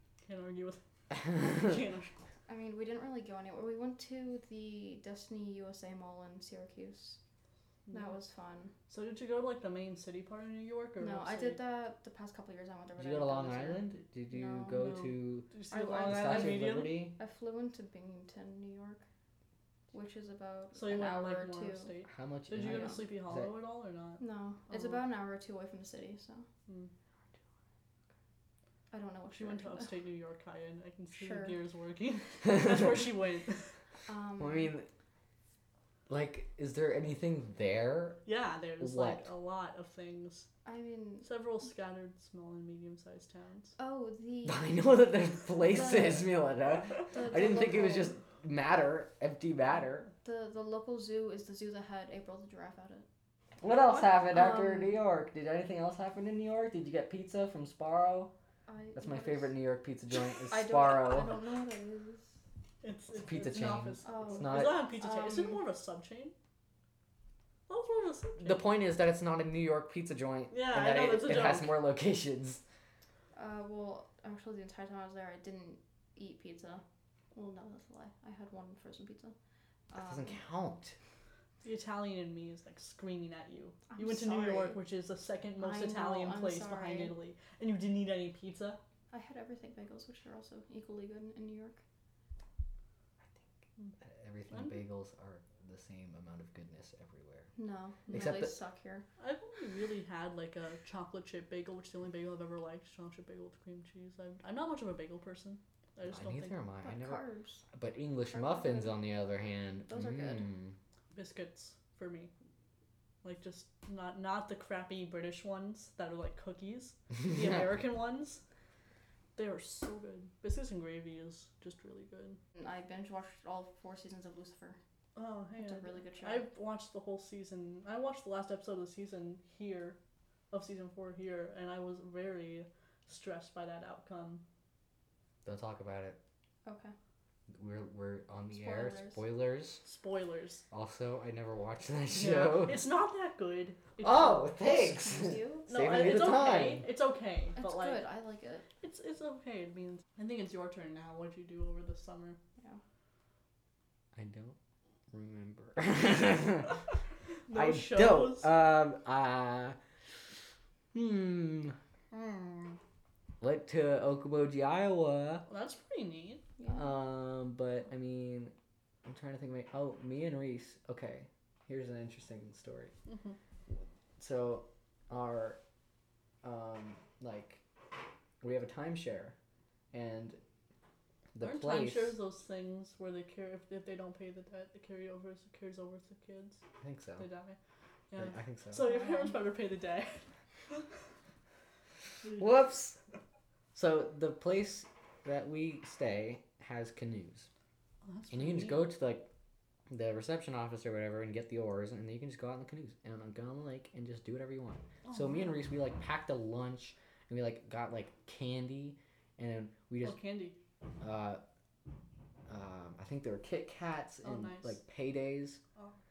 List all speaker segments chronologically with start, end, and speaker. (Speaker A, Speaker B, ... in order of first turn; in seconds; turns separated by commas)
Speaker A: 0.2-2.2, Speaker B: 2.5-7.2, Speaker A: 7.9-8.2, Speaker B: 7.9-8.7, Speaker A: 8.9-11.6, Speaker B: 11.0-14.8, Speaker C: 13.0-15.6, Speaker A: 14.8-17.0, Speaker B: 15.7-19.1, Speaker C: 16.1-17.1, Speaker B: 19.9-21.9, Speaker A: 20.8-24.2, Speaker C: 22.1-23.5, Speaker B: 22.6-23.0, Speaker B: 24.2-26.5, Speaker A: 24.7-25.0, Speaker B: 28.9-29.9, Speaker A: 29.3-33.8, Speaker B: 31.1-31.6, Speaker B: 34.1-34.7, Speaker C: 34.4-34.9, Speaker C: 36.1-38.2, Speaker A: 38.2-40.5, Speaker C: 38.8-39.3, Speaker B: 40.6-41.3, Speaker A: 41.2-43.7, Speaker B: 43.8-44.7, Speaker C: 44.5-50.1, Speaker A: 45.8-46.3, Speaker B: 47.1-48.2, Speaker B: 50.2-53.1, Speaker C: 53.6-58.3, Speaker B: 54.3-55.0, Speaker B: 58.7-59.5, Speaker C: 59.0-61.4, Speaker B: 60.5-62.4, Speaker A: 62.8-66.3, Speaker C: 63.1-64.8, Speaker B: 64.0-65.6, Speaker A: 67.7-68.7, Speaker C: 68.4-72.6, Speaker A: 70.5-71.8, Speaker B: 73.3-79.3, Speaker B: 79.9-80.4, Speaker C: 80.0-81.0, Speaker A: 81.6-88.8, Speaker B: 83.9-84.8, Speaker B: 85.6-87.2, Speaker B: 89.1-91.8, Speaker C: 94.0-97.5, Speaker A: 94.5-94.8, Speaker B: 97.6-99.0, Speaker C: 98.1-98.6, Speaker A: 99.2-106.5, Speaker C: 106.0-110.8, Speaker B: 106.8-107.7, Speaker B: 108.3-109.0, Speaker B: 109.9-110.5, Speaker A: 111.1-112.3, Speaker A: 113.2-118.4, Speaker A: 119.4-122.4, Speaker B: 122.5-124.8, Speaker A: 125.2-130.0, Speaker B: 125.6-126.5, Speaker A: 130.5-134.4, Speaker C: 135.4-136.2, Speaker B: 136.7-136.9, Speaker C: 137.6-139.8, Speaker B: 138.5-139.2, Speaker A: 139.8-140.6, Speaker C: 140.7-142.8, Speaker A: 142.1-144.8, Speaker C: 144.0-146.8, Speaker B: 144.6-145.7, Speaker A: 145.7-148.1, Speaker B: 147.6-148.7, Speaker A: 148.8-152.4, Speaker C: 154.2-154.6, Speaker C: 155.1-156.8, Speaker A: 157.5-158.5, Speaker C: 157.5-159.8, Speaker C: 160.9-161.8, Speaker A: 162.1-162.8, Speaker C: 163.4-165.4, Speaker A: 165.5-166.4, Speaker B: 166.6-166.9, Speaker C: 166.7-168.5, Speaker C: 169.1-172.9, Speaker A: 173.1-173.4, Speaker C: 173.7-175.6, Speaker C: 176.4-177.6, Speaker C: 178.4-179.3, Speaker C: 179.9-180.4, Speaker C: 181.3-182.2, Speaker A: 181.4-186.6, Speaker C: 186.8-187.3, Speaker A: 187.2-187.6, Speaker A: 188.1-190.8, Speaker C: 188.2-188.8, Speaker B: 188.8-189.4, Speaker A: 192.2-192.6, Speaker C: 192.4-193.0, Speaker C: 193.7-197.5, Speaker A: 198.0-198.8, Speaker C: 198.3-199.3, Speaker C: 199.9-210.2, Speaker A: 205.0-205.5, Speaker A: 210.0-210.6, Speaker C: 211.0-211.4, Speaker C: 212.5-215.6, Speaker A: 214.2-214.8